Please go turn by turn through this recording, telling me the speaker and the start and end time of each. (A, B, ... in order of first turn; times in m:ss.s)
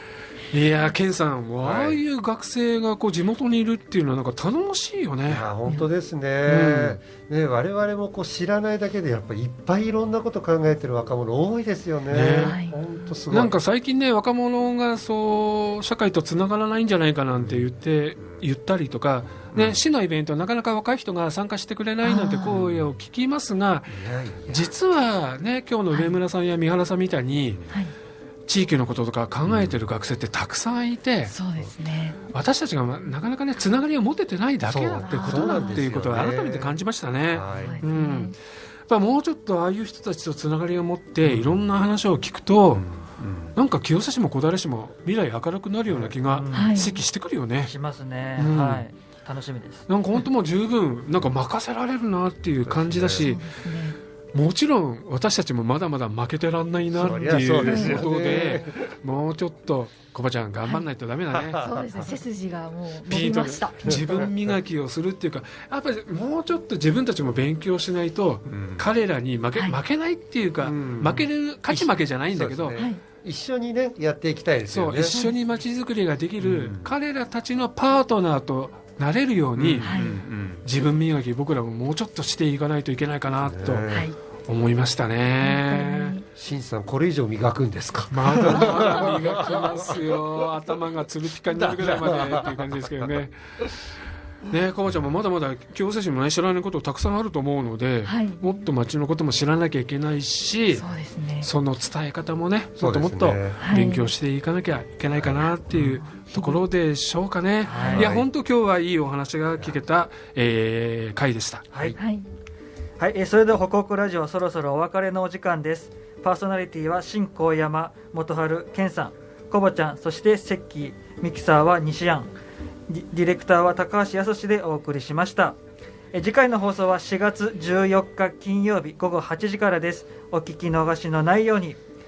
0:00.5-0:05.5 A
0:01.6-0:02.0 B
0:05.2-0:13.6 B
0:06.4-0:07.0 A
0:12.1-0:12.6 A
0:12.3-0:12.8 C
0:13.3-0:27.6 A
0:17.4-0:17.7 B
0:19.5-0:19.8 B
0:22.0-0:22.6 C
0:22.5-0:22.9 B
0:23.9-0:24.7 B
0:25.9-0:26.2 C
0:28.5-0:31.3 A
0:31.2-0:32.2 C
0:32.3-0:42.8 A
0:34.6-0:37.8 B
0:35.0-0:36.0 C
0:37.5-0:38.4 C
0:41.2-0:41.5 B
0:42.7-0:43.5 B
0:43.5-0:47.7 A
0:45.9-0:46.2 B
0:46.2-0:46.8 D
0:46.5-0:47.0 C
0:47.6-0:49.9 D
0:48.4-0:48.8 A
0:49.9-0:53.5 A
0:52.6-0:53.3 B
0:53.2-0:54.0 C
0:54.3-1:01.7 A
0:56.9-0:58.9 B
0:57.6-0:58.0 C
1:01.3-1:02.2 B
1:01.6-1:04.0 C
1:03.1-1:12.8 A
1:03.8-1:04.6 B
1:09.5-1:09.8 C
1:10.6-1:15.3 B
1:12.7-1:13.0 C
1:14.6-1:23.8 A
1:16.4-1:16.9 B
1:19.5-1:20.6 B
1:19.8-1:20.2 C
1:23.4-1:24.1 B
1:23.9-1:24.2 C
1:24.5-1:26.2 A
1:25.4-1:26.2 C
1:26.3-1:30.5 B
1:28.1-1:33.6 A
1:31.4-1:33.1 B
1:34.5-1:40.8 A
1:38.0-1:38.7 C
1:40.7-1:41.5 C
1:41.4-1:51.7 A
1:42.8-1:43.6 B
1:43.6-1:44.1 C
1:45.2-1:45.8 B
1:45.8-1:46.6 C
1:47.6-1:48.1 D
1:47.8-1:48.2 B
1:51.7-1:52.0 D
1:52.0-1:52.3 C
1:53.0-2:02.3 D
2:02.9-2:05.6 D
2:06.1-2:11.8 D